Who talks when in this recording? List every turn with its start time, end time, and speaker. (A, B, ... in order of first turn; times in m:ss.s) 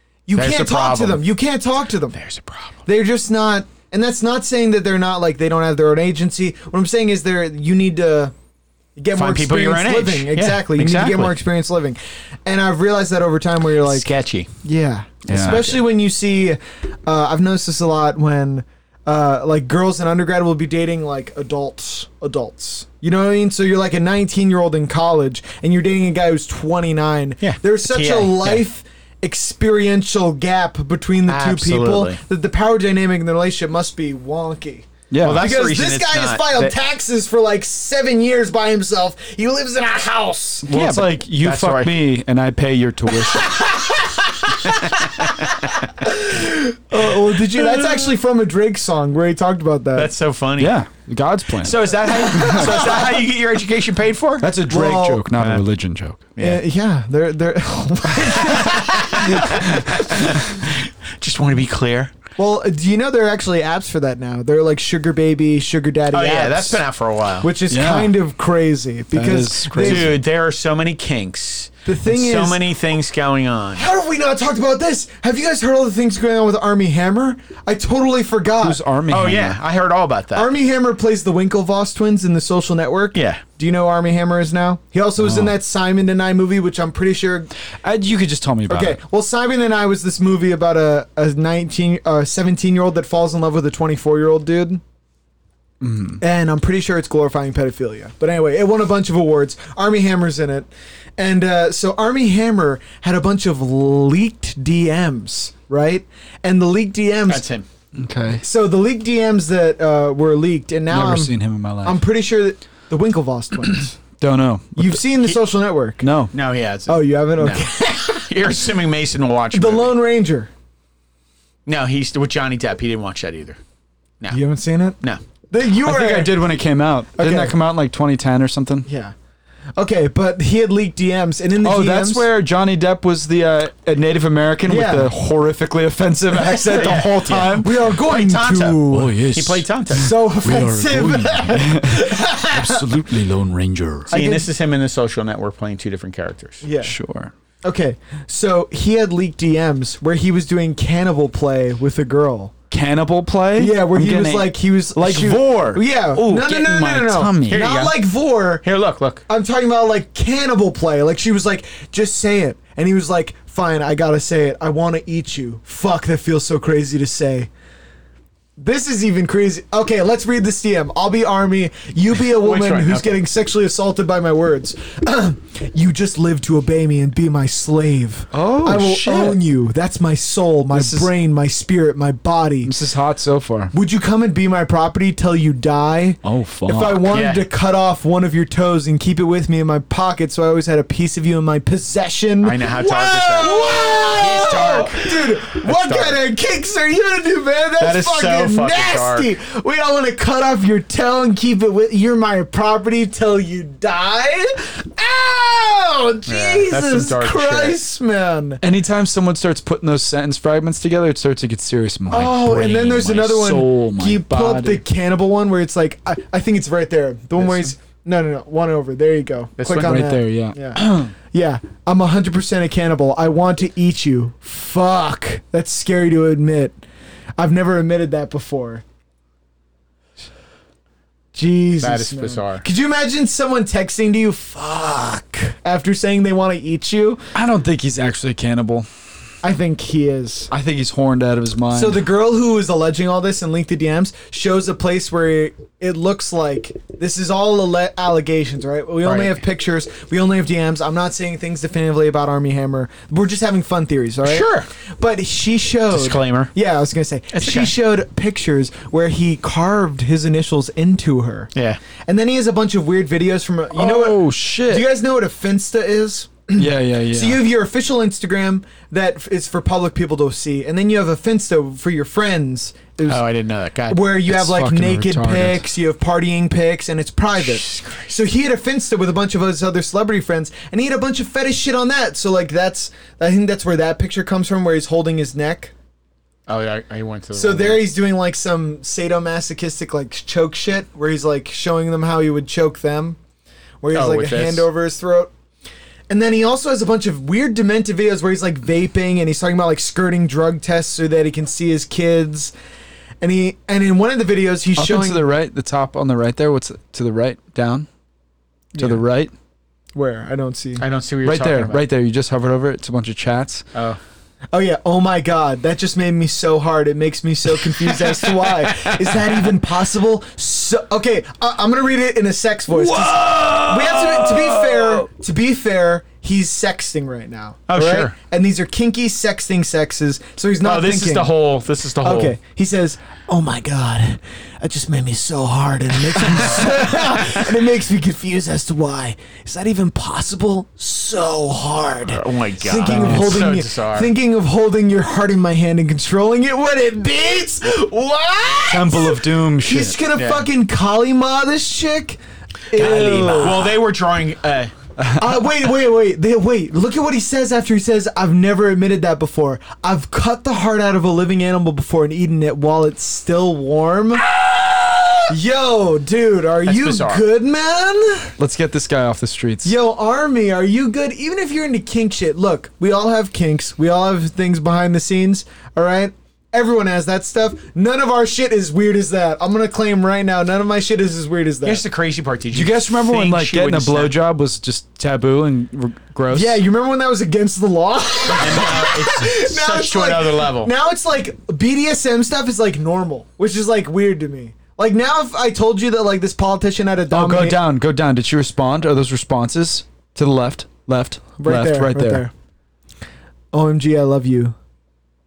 0:00.3-0:02.2 A
0:00.4-0:01.2 B
0:02.1-0:02.8 B
0:02.9-0:08.3 A
0:09.0-0:14.1 A
0:09.2-0:11.4 B
0:13.8-0:14.5 B
0:14.6-0:40.7 A
0:15.3-0:15.8 B
0:15.3-0:15.6 C
0:27.4-0:28.6 B
0:31.3-0:32.2 B
0:35.1-0:35.5 C
0:35.2-0:36.8 B
0:40.7-0:43.6 C
0:40.7-0:42.0 B
0:44.5-0:45.9 B
0:46.0-0:50.1 A
0:50.0-0:50.8 B
0:50.6-0:52.9 C
0:51.6-0:54.5 B
0:52.1-0:53.2 A
0:54.4-0:56.3 C
0:54.6-0:55.3 A
0:56.4-0:56.6 B
0:56.4-1:00.4 A
0:58.4-1:02.1 B
1:02.4-1:06.8 A
1:06.1-1:07.5 B
1:07.4-1:10.2 A
1:07.7-1:08.1 C
1:09.1-1:10.2 C
1:09.8-1:13.9 B
1:11.9-1:12.6 A
1:13.8-1:18.8 A
1:18.6-1:19.6 C
1:19.1-1:20.5 B
1:20.3-1:27.5 A
1:23.1-1:23.4 B
1:25.2-1:25.5 C
1:27.8-1:29.0 C
1:28.7-1:34.8 A
1:35.8-1:36.2 C
1:36.2-1:47.5 A
1:47.3-1:47.6 B
1:48.0-1:48.4 C
1:48.4-1:51.3 A
1:50.9-1:52.0 C
1:51.8-1:54.0 A
1:54.2-1:55.0 C
1:54.8-1:56.0 A
1:56.0-1:56.3 C
1:56.3-2:00.0 B
1:56.9-1:58.5 A
1:59.5-2:00.5 A
2:01.7-2:03.6 B
2:04.3-2:06.4 A
2:05.8-2:08.9 C
2:07.2-2:07.6 A
2:08.9-2:09.2 A
2:09.8-2:12.3 A
2:11.6-2:17.9 C
2:14.7-2:15.1 A
2:16.3-2:19.2 A
2:16.8-2:20.1 B
2:18.9-2:24.1 C
2:19.9-2:23.1 A
2:24.1-2:26.6 B
2:24.1-2:24.5 A
2:26.6-2:27.0 A
2:26.8-2:27.3 C
2:27.6-2:32.5 A
2:32.7-2:37.6 C
2:33.6-2:38.6 A
2:37.5-2:38.0 B
2:38.6-2:39.2 B
2:39.3-2:47.5 A
2:48.6-3:02.7 A
2:52.3-2:53.2 B
2:58.3-2:59.4 C
3:00.7-3:01.1 C
3:02.6-3:03.7 C
3:03.7-3:28.6 A
3:06.2-3:07.2 C
3:07.1-3:07.5 B
3:12.4-3:16.2 B
3:13.5-3:14.9 C
3:17.8-3:19.3 B
3:26.3-3:27.8 B
3:28.6-3:34.8 C
3:32.1-3:46.8 A
3:39.6-3:40.1 B
3:39.8-3:41.1 C
3:47.4-3:48.8 A
3:51.3-3:57.2 A
3:51.8-3:52.6 B
3:57.3-3:58.9 C
3:59.4-4:00.5 A
4:00.5-4:02.0 C
4:01.7-4:21.5 A
4:09.0-4:09.4 B
4:14.2-4:14.7 B
4:15.9-4:16.5 B
4:17.3-4:17.7 B
4:22.1-4:33.2 A
4:23.7-4:24.8 C
4:26.6-4:27.4 C
4:33.1-4:34.0 B
4:33.9-4:45.7 A
4:34.3-4:35.7 C
4:37.4-4:38.1 B
4:46.5-4:47.9 B
4:47.3-4:53.2 A
4:53.8-4:55.3 A
4:53.9-4:54.7 B
4:56.1-5:02.5 A
5:03.2-5:05.3 A
5:04.8-5:07.9 C
5:08.7-5:09.0 A
5:08.8-5:09.3 C
5:09.9-5:10.8 A
5:10.8-5:11.9 B
5:11.2-5:13.6 C
5:13.7-5:14.0 B
5:14.5-5:31.3 A
5:22.7-5:25.0 C
5:27.7-5:28.1 B
5:30.6-5:32.4 B
5:32.0-5:52.2 A
5:36.2-5:37.3 B
5:42.1-5:44.1 B
5:42.9-5:43.4 C
5:48.7-5:50.0 C
5:50.1-5:50.5 B
5:52.7-5:53.7 A
5:52.7-5:54.7 B
5:52.8-5:53.7 C
5:55.1-6:04.2 A
6:05.3-6:08.4 A
6:06.6-6:07.2 B
6:08.4-6:09.8 C
6:09.6-6:21.8 A
6:21.6-6:24.2 B
6:22.5-6:26.6 C
6:26.3-6:37.6 A
6:28.3-6:30.7 B
6:37.1-6:42.3 C
6:41.4-6:42.3 A
6:43.5-6:44.6 A